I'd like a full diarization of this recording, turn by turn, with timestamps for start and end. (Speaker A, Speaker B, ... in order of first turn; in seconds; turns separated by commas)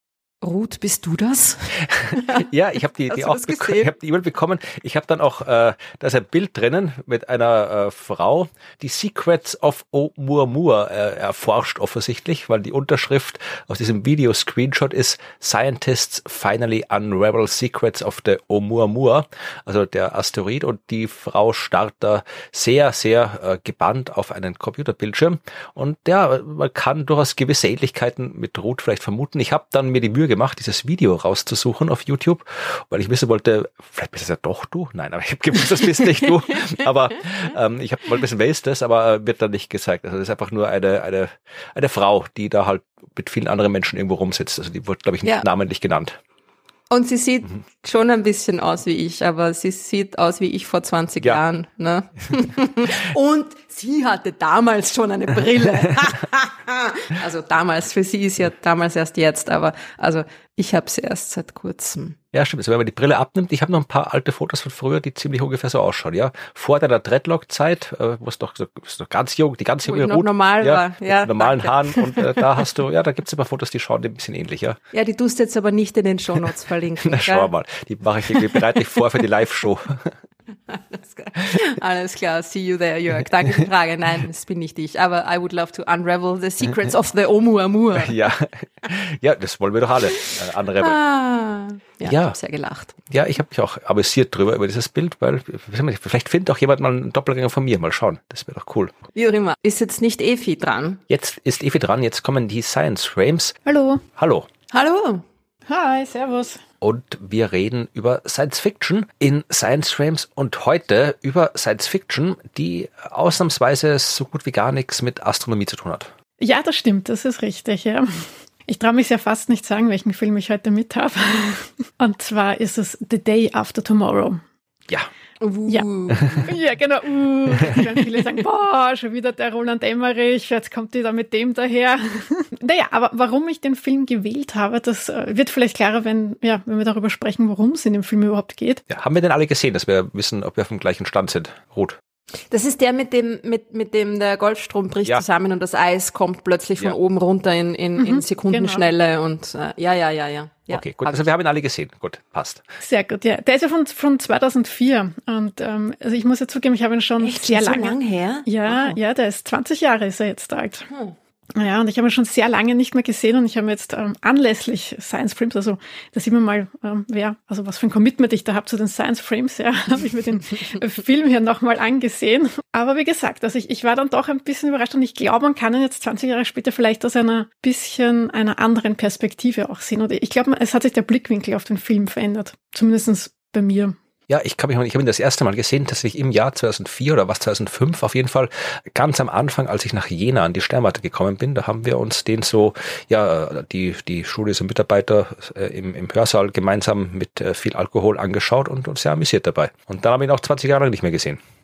Speaker A: 0.4-2.4, Speaker B: 2.2-46.2, Speaker A: 3.1-3.9, Speaker A: 36.5-36.9, Speaker A: 46.9-62.2, Speaker B: 62.3-74.8, Speaker A: 69.8-72.6, Speaker A: 74.9-77.5, Speaker B: 77.0-80.1, Speaker A: 80.7-88.2, Speaker B: 88.0-91.0, Speaker A: 90.1-93.0, Speaker B: 92.0-92.3, Speaker B: 93.1-98.9, Speaker A: 99.2-101.0, Speaker B: 101.1-103.6, Speaker C: 103.7-104.0, Speaker B: 104.2-104.5, Speaker A: 104.7-105.2, Speaker C: 105.7-106.6, Speaker B: 106.8-116.1, Speaker C: 116.4-124.4, Speaker A: 125.4-126.6, Speaker C: 126.4-138.8, Speaker B: 138.9-142.0, Speaker A: 142.5-151.3, Speaker C: 148.0-148.8, Speaker B: 150.7-152.6, Speaker C: 152.8-160.9, Speaker A: 157.2-158.9, Speaker C: 161.6-183.9, Speaker B: 184.3-201.4